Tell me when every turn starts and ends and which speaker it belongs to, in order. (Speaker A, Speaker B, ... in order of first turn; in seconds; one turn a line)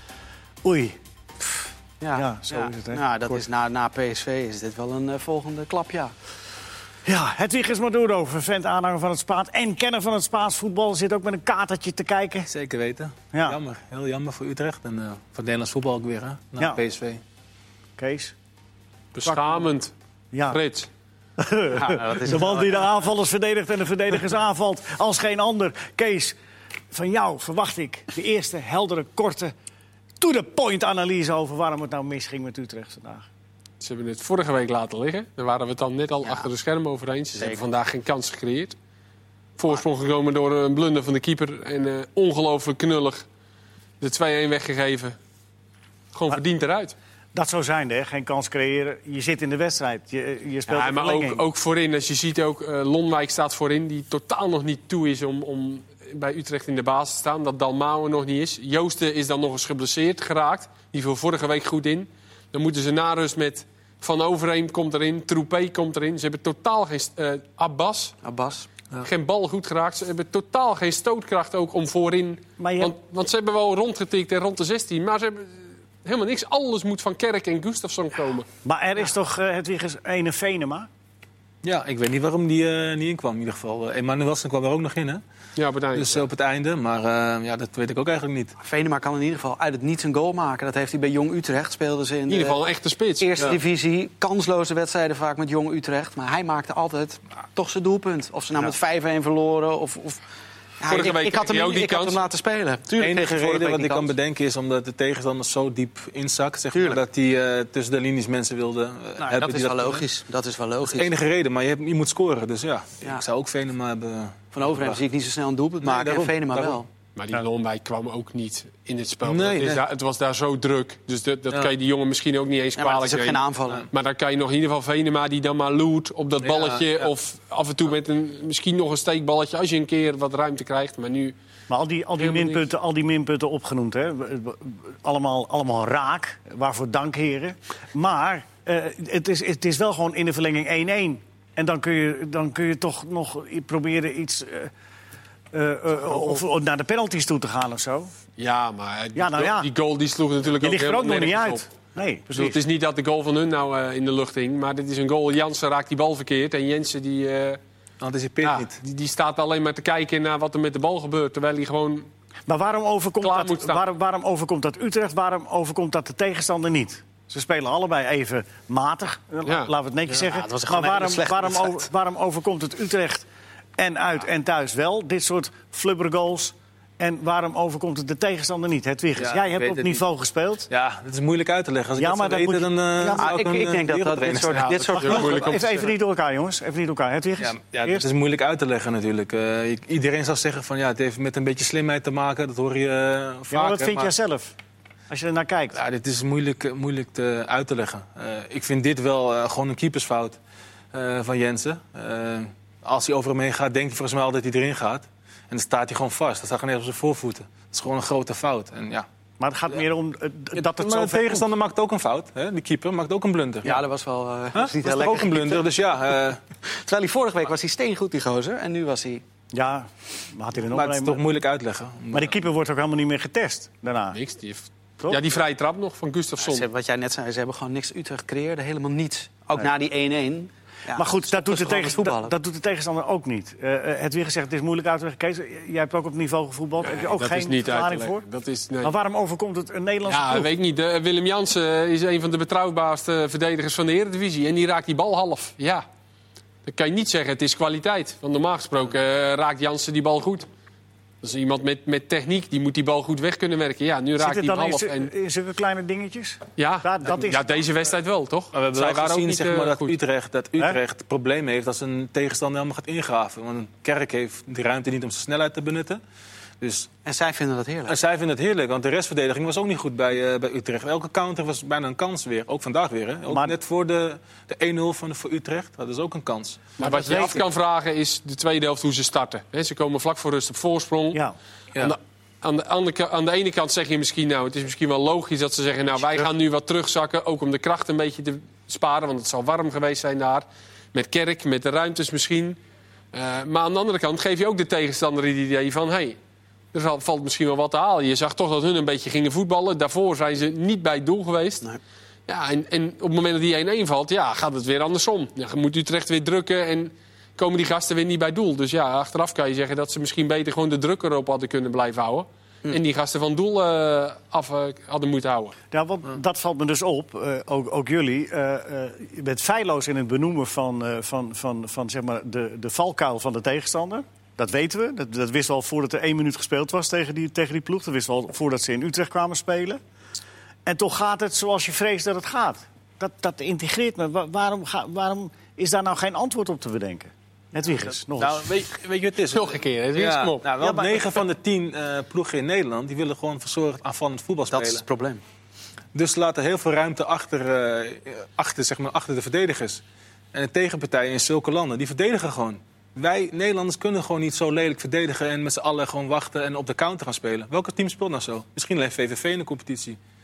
Speaker A: 0.6-1.5
Speaker B: 2.0-6.1
Speaker A: 2.1-3.4
Speaker A: 7.0-12.5
Speaker C: 12.5-17.2
Speaker A: 13.3-13.6
Speaker A: 18.0-18.3
Speaker D: 19.1-19.9
Speaker A: 19.2-19.7
Speaker A: 20.3-20.6
Speaker D: 20.5-20.9
Speaker A: 21.4-26.3
Speaker B: 21.7-22.8
Speaker A: 26.9-29.5
Speaker A: 30.2-33.3
Speaker D: 33.8-38.8
Speaker D: 39.6-43.2
Speaker D: 44.0-45.2
Speaker D: 46.1-46.9
Speaker A: 47.3-51.4
Speaker D: 50.7-68.2
Speaker B: 68.2-68.7
Speaker D: 69.0-78.5
Speaker A: 72.6-73.0
Speaker A: 78.6-80.9
Speaker C: 81.6-85.2
Speaker D: 85.5-86.2
Speaker C: 85.9-88.5
Speaker B: 88.6-92.6
Speaker D: 92.3-93.3
Speaker B: 93.2-100.2
Speaker B: 100.8-104.1
Speaker D: 100.9-102.2
Speaker C: 103.0-110.0
Speaker B: 106.7-107.0
Speaker B: 109.2-111.1
Speaker C: 110.9-115.0
Speaker B: 114.5-116.9
Speaker C: 115.8-116.8
Speaker D: 117.2-131.3
Speaker C: 119.2-119.8
Speaker B: 122.8-123.9
Speaker C: 126.4-127.1
Speaker A: 131.7-144.7
Speaker D: 132.2-132.7
Speaker A: 145.5-148.1
Speaker D: 148.4-151.7
Speaker A: 149.1-149.7
Speaker A: 150.6-152.6
Speaker D: 152.3-157.6
Speaker C: 158.0-158.8
Speaker D: 158.4-162.1
Speaker A: 162.5-173.2
Speaker D: 163.2-163.8
Speaker D: 169.4-170.2
Speaker B: 170.2-171.8
Speaker A: 173.8-180.7
Speaker C: 179.2-180.0
Speaker C: 180.7-185.4
Speaker A: 182.0-183.3
Speaker B: 183.2-185.4
Speaker D: 184.5-185.9
Speaker A: 185.1-188.1
Speaker C: 187.4-194.1
Speaker A: 193.5-194.5
Speaker A: 195.1-195.8
Speaker C: 195.7-200.4
Speaker C: 200.9-209.1
Speaker A: 209.4-211.5
Speaker C: 210.5-213.8
Speaker B: 213.6-215.6
Speaker C: 214.5-216.4
Speaker B: 216.6-219.2
Speaker A: 219.5-221.2
Speaker C: 220.7-222.3
Speaker A: 222.1-224.2
Speaker D: 224.1-226.7
Speaker A: 225.0-225.3
Speaker B: 226.4-232.3
Speaker A: 230.9-238.2
Speaker D: 236.8-238.9
Speaker A: 238.8-240.5
Speaker D: 240.1-245.8
Speaker D: 246.7-250.5
Speaker D: 251.2-255.1
Speaker A: 254.2-257.7
Speaker D: 256.6-259.9
Speaker C: 258.5-266.0
Speaker C: 266.6-266.9
Speaker B: 267.0-267.9
Speaker C: 267.9-277.4
Speaker A: 273.3-273.5
Speaker D: 276.8-281.2
Speaker A: 276.8-277.4
Speaker D: 281.8-292.6
Speaker D: 293.1-296.2
Speaker D: 296.7-301.6
Speaker D: 302.3-315.6
Speaker A: 315.7-329.8
Speaker A: 330.6-338.5
Speaker C: 338.2-344.8
Speaker D: 339.3-340.4
Speaker A: 340.6-341.2
Speaker B: 344.5-345.2
Speaker C: 345.9-349.8
Speaker C: 350.3-360.0